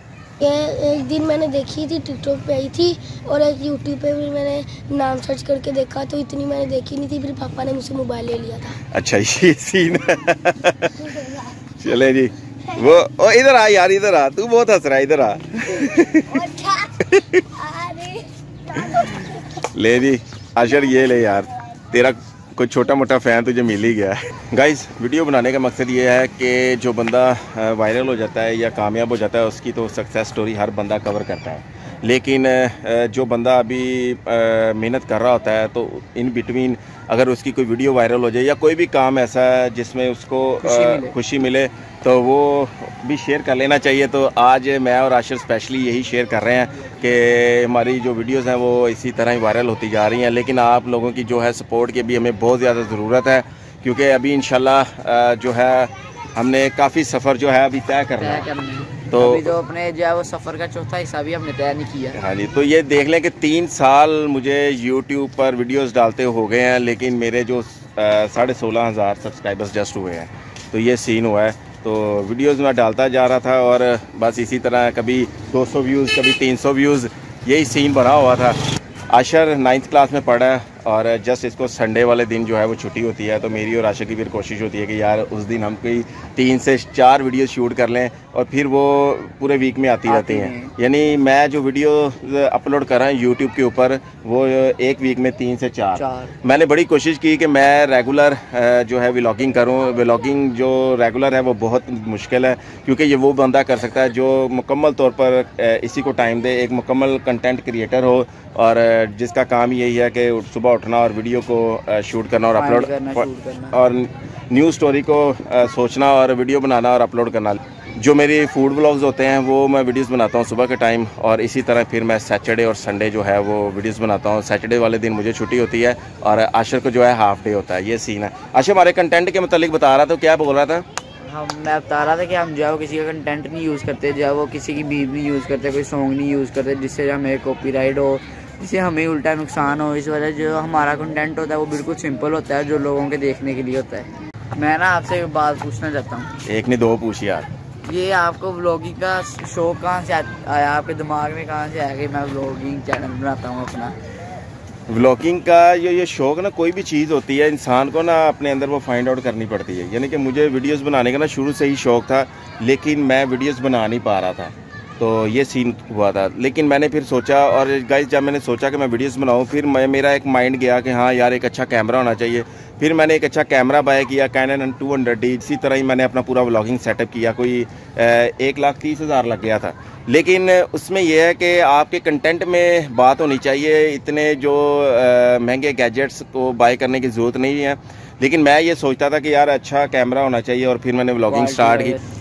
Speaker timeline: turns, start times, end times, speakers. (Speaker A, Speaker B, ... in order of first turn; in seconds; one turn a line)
Speaker A: 0.4-8.8
Speaker B: 8.9-11.1
Speaker A: 11.1-11.4
Speaker B: 11.8-17.6
Speaker A: 16.4-16.9
Speaker A: 17.6-18.3
Speaker B: 18.7-58.5
Speaker A: 19.1-19.5
Speaker C: 40.6-41.2
Speaker C: 58.2-62.2
Speaker B: 59.1-59.5
Speaker B: 62.1-78.6
Speaker B: 79.1-130.8
Speaker C: 90.1-90.7
Speaker C: 95.9-96.3
Speaker C: 112.5-113.8
Speaker C: 131.2-146.3
Speaker B: 146.4-147.5
Speaker C: 147.8-153.9
Speaker B: 154.9-192.0
Speaker C: 191.3-192.0